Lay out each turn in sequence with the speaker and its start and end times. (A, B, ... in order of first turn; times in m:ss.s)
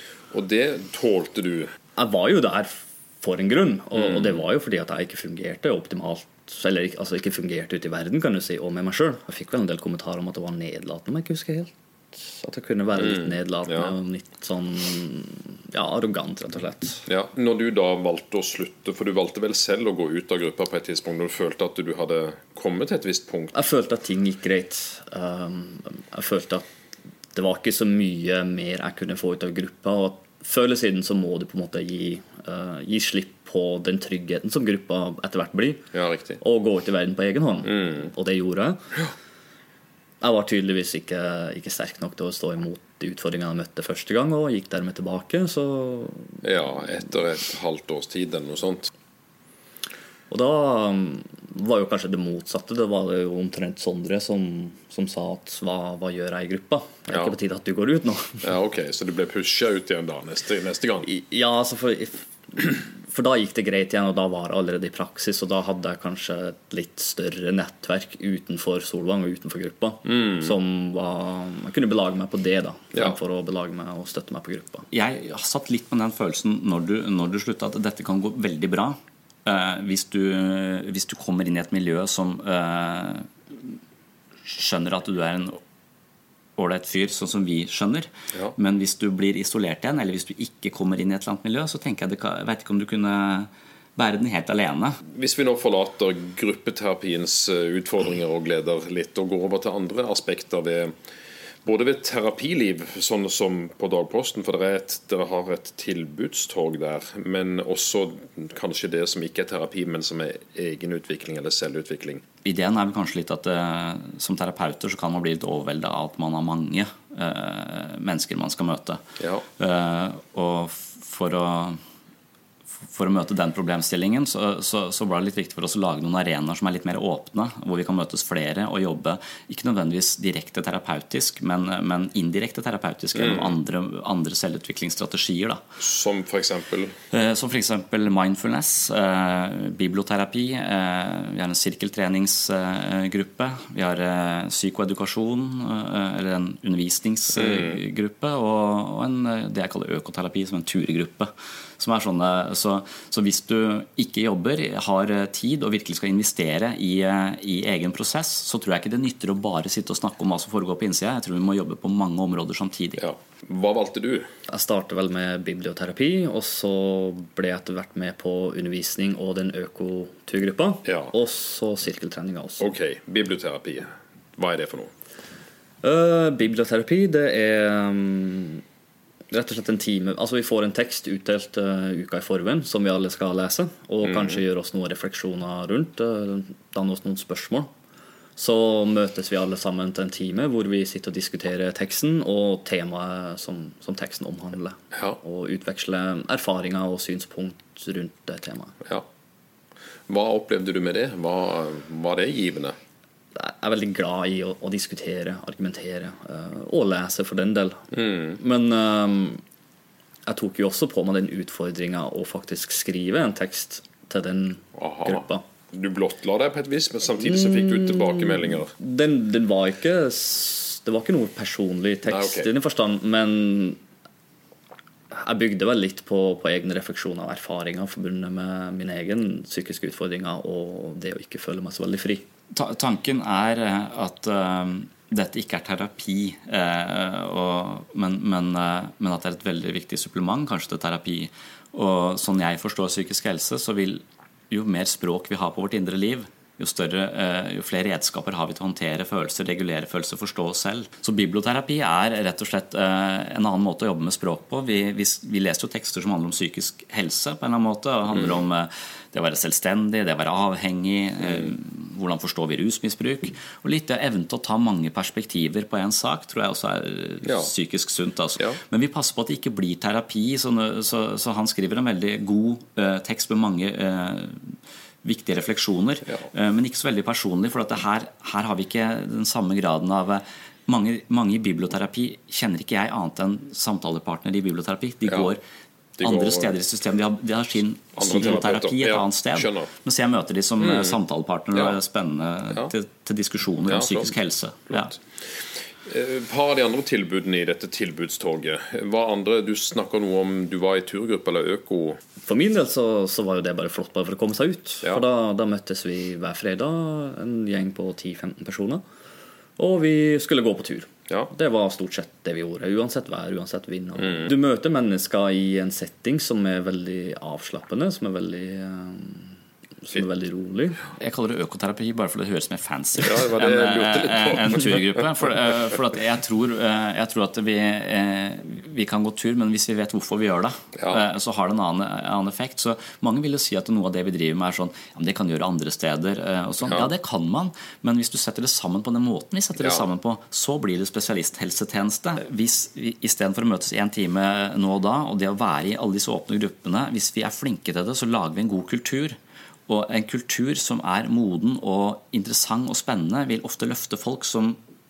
0:00.3-0:01.7 A
0:02.0-0:17.0 B
0:04.0-0:04.3 A
0:13.0-0:13.9 A
0:17.1-0:23.6 A
0:23.5-0:26.7 B
0:27.3-0:35.8 B
0:35.9-0:36.4 A
0:36.4-0:38.9 B
0:37.7-0:38.1 A
0:40.2-0:46.4 B
0:46.4-0:48.9 A
0:50.3-0:58.5 B
0:58.4-1:01.1 A
1:01.1-1:14.9 B
1:10.1-1:10.5 A
1:14.9-1:23.8 C
1:24.4-1:25.6 C
1:26.6-1:35.0 C
1:35.1-1:40.9 A
1:41.6-1:52.2 A
1:52.4-1:59.0 C
1:59.2-1:59.4 A
1:59.6-2:01.8 C
2:02.9-2:15.6 C
2:13.2-2:13.6 A
2:15.8-2:16.9 A
2:17.1-2:43.0 C
2:27.4-2:27.8 A
2:43.0-2:44.3 A
2:44.5-2:52.6 B
2:50.9-2:51.1 A
2:52.6-2:54.9 A
2:55.8-2:58.6 B
2:59.3-3:07.7 B
3:04.0-3:04.4 A
3:08.4-3:18.8 B
3:14.9-3:15.2 A
3:20.1-3:22.8 A
3:23.4-3:27.8 B
3:27.9-3:28.4 A
3:28.4-3:29.4 B
3:30.3-3:35.4 B
3:34.8-3:38.7 A
3:37.3-3:43.8 B
3:42.1-3:42.5 A
3:45.1-3:52.3 B
3:52.5-4:45.4 C
4:18.1-4:18.4 A
4:21.2-4:21.5 A
4:27.2-4:27.5 A
4:46.0-4:46.5 A
4:46.0-4:54.9 C
4:48.0-4:49.7 A
4:50.6-4:51.0 A
4:53.7-4:54.1 A
4:54.7-4:55.0 A
4:55.9-5:02.0 A
5:02.2-5:08.8 B
5:09.6-5:20.8 B
5:14.0-5:14.3 A
5:21.0-5:49.2 C
5:23.0-5:25.0 A
5:30.8-5:31.0 A
5:39.6-5:39.8 A
5:49.7-5:54.6 C